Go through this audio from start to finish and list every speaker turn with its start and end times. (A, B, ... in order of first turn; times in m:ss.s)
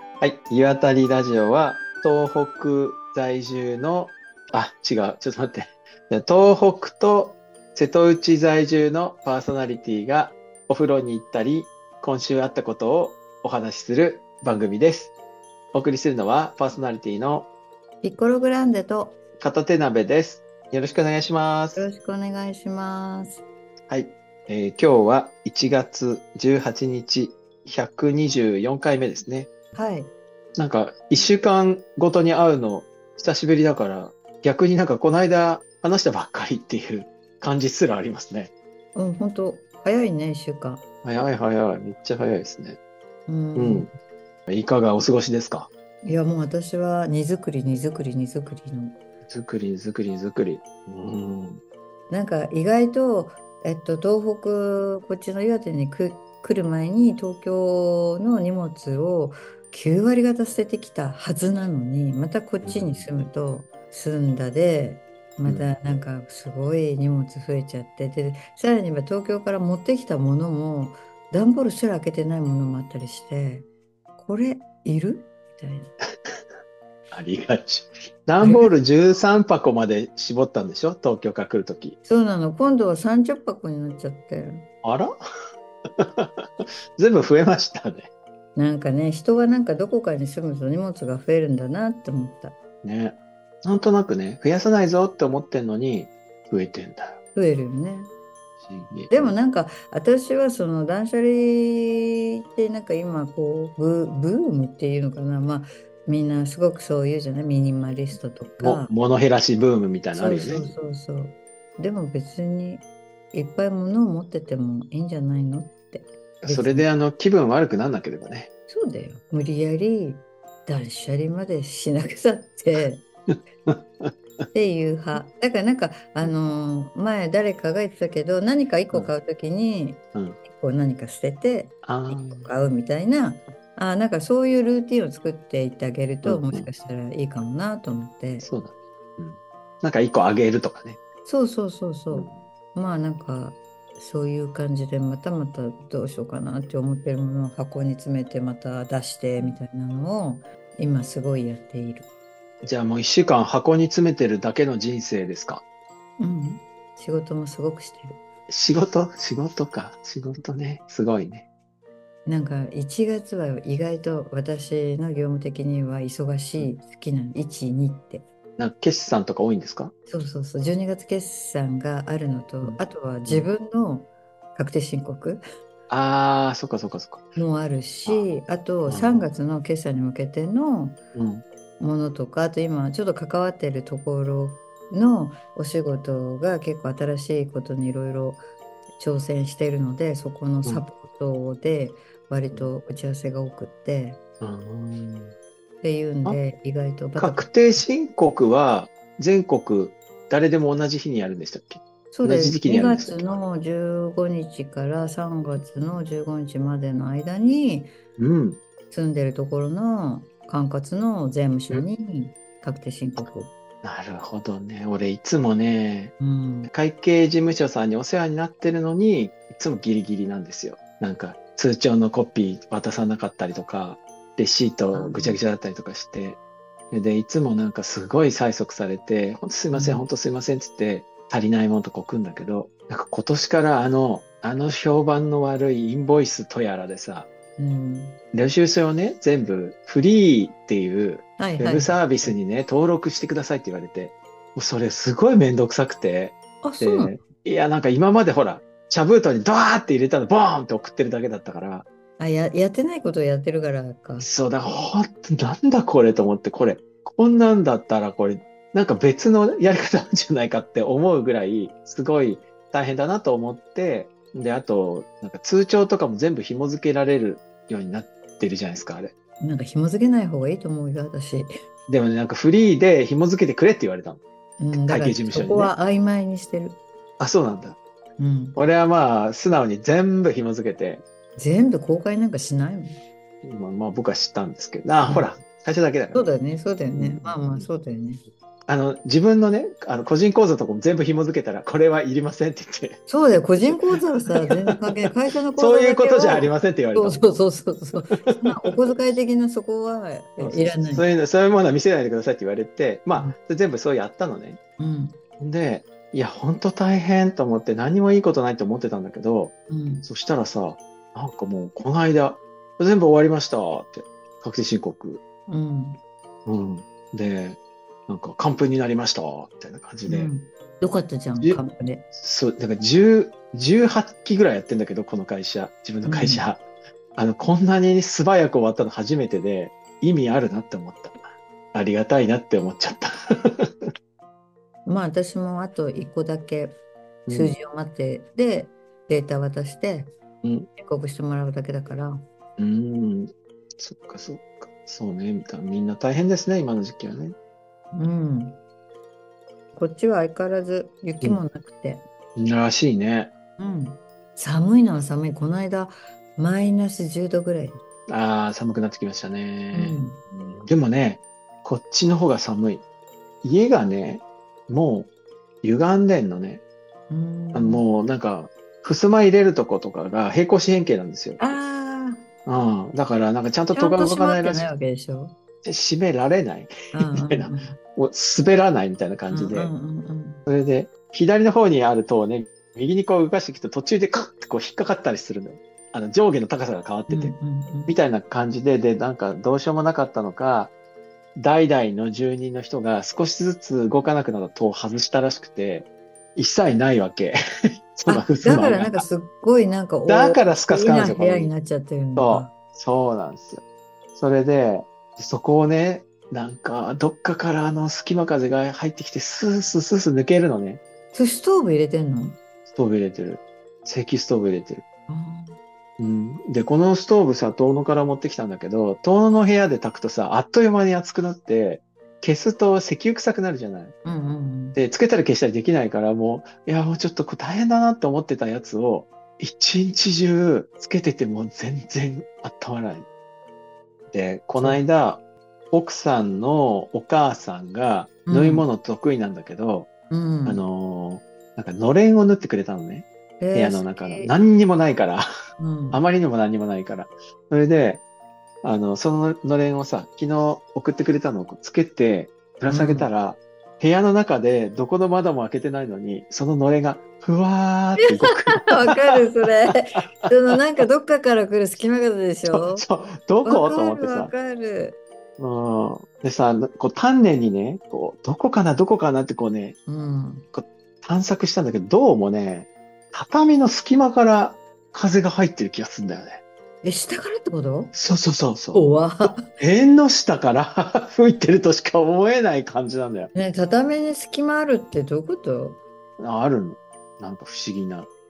0:00.2-0:15.1 A
0:15.7-0:17.5 A
0:18.0-0:19.2 B
0:19.4-0:21.9 A
0:21.8-0:23.4 B
0:23.9-0:29.5 A
0:29.7-0:30.1 B
0:30.6-0:38.5 A
0:39.0-0:40.8 B
0:41.0-0:42.8 A
0:43.3-0:43.9 B
0:43.6-0:43.9 A
0:44.5-0:45.7 A
0:46.0-0:49.0 B
0:49.3-0:51.6 A
0:52.1-1:15.9 B
1:02.6-1:03.1 A
1:17.1-1:22.0 A
1:18.4-1:18.7 B
1:22.0-1:24.6 B
1:24.8-1:25.1 A
1:26.0-1:28.1 A
1:28.6-1:32.6 B
1:32.8-1:37.2 A
1:37.4-1:38.1 B
1:38.6-1:39.4 A
1:39.1-1:48.9 B
1:48.6-1:50.7 A
1:50.1-1:56.9 B
1:56.4-1:58.5 A
1:58.7-2:03.0 B
2:03.3-2:04.1 A
2:04.5-2:18.5 B
2:11.8-2:12.5 A
2:16.2-2:16.7 A
2:18.4-2:21.0 A
2:21.3-2:32.1 B
2:22.1-2:22.4 A
2:32.6-2:35.6 A
2:36.2-2:38.2 B
2:38.5-2:41.5 A
2:42.3-2:48.2 B
2:48.6-2:49.9 A
2:50.1-2:55.4 B
2:52.6-2:53.5 A
2:55.9-2:57.4 A
2:57.4-3:01.0 B
2:58.9-2:59.3 A
3:01.2-3:01.4 A
3:01.8-3:08.4 B
3:09.0-3:14.2 B
3:14.4-3:15.3 A
3:15.8-3:17.8 B
3:17.2-3:23.2 A
3:22.1-3:27.9 B
3:28.2-3:28.6 A
3:28.9-3:33.5 B
3:33.8-3:36.2 A
3:36.2-3:36.7 B
3:36.7-3:46.4 A
3:44.9-3:45.4 B
3:46.9-3:57.3 A
3:49.7-3:50.1 B
3:57.6-3:58.2 B
3:58.3-4:11.9 A
4:01.4-4:02.4 B
4:06.6-4:07.2 B
4:12.2-4:14.3 B
4:14.2-4:29.1 A
4:29.4-4:31.5 B
4:31.9-4:34.2 A
4:34.6-4:36.8 B
4:34.7-4:35.7 A
4:37.2-4:37.8 A
4:38.2-4:38.6 B
4:38.6-4:41.0 A
4:41.4-4:43.0 B
4:43.4-4:46.3 A
4:45.1-4:45.3 B
4:46.1-4:48.2 B
4:46.9-4:47.7 A
4:48.7-4:53.0 A
4:53.1-5:01.1 B
4:53.6-4:57.3 A
4:58.2-4:58.7 A
5:00.4-5:04.6 A
5:04.8-5:05.2 B
5:05.4-5:09.5 A
5:09.7-5:10.1 B
5:10.1-5:15.2 A
5:15.5-5:16.0 B
5:16.5-5:20.3 A
5:20.1-5:22.1 B
5:22.2-5:26.6 A
5:26.1-5:26.5 B
5:27.2-5:33.7 A
5:34.9-5:36.7 B
5:37.3-5:37.6 A
5:37.3-5:40.1 B
5:40.4-5:40.7 A
5:40.8-5:42.2 B
5:42.6-5:47.4 A
5:47.9-5:48.6 B
5:49.7-5:52.0 B
5:52.4-5:53.3 A
5:53.6-5:57.8 B
5:58.1-6:02.8 A
5:59.7-6:00.2 B
6:03.4-6:05.1 A
6:05.6-6:06.6 A
6:07.1-6:07.8 B
6:07.5-6:11.4 A
6:11.4-6:12.2 B
6:12.5-6:14.7 A
6:13.7-6:15.3 B
6:15.6-6:19.7 A
6:16.9-6:17.8 B
6:19.3-6:20.5 B
6:20.5-6:27.4 A
6:27.1-6:27.9 B
6:27.9-6:30.7 A
6:31.4-6:37.4 A
6:37.9-6:39.0 A
6:38.1-6:42.5 B
6:40.1-6:41.5 A
6:42.2-6:43.6 A
6:44.2-6:50.8 A
6:51.1-6:52.4 B
6:52.7-6:54.8 A
6:55.1-6:55.6 B
6:56.0-7:04.0 A
7:04.0-7:04.8 B
7:04.8-7:13.1 A
7:14.1-7:19.9 A
7:14.6-7:14.8 B
7:18.3-7:18.6 B
7:20.1-7:20.6 B
7:20.5-7:25.3 A
7:23.4-7:24.3 B
7:25.6-7:26.0 B
7:25.9-7:28.0 A
7:28.6-7:39.2 A
7:32.7-7:33.1 B
7:38.0-7:42.8 B
7:40.2-7:40.6 A
7:42.5-7:44.3 A
7:43.4-7:45.0 B
7:45.4-7:49.8 A
7:49.9-7:50.5 B
7:50.5-7:56.4 A
7:56.8-7:58.0 B
7:57.9-8:03.3 A
7:58.7-7:59.5 B
8:03.3-8:05.8 B
8:06.2-8:08.1 A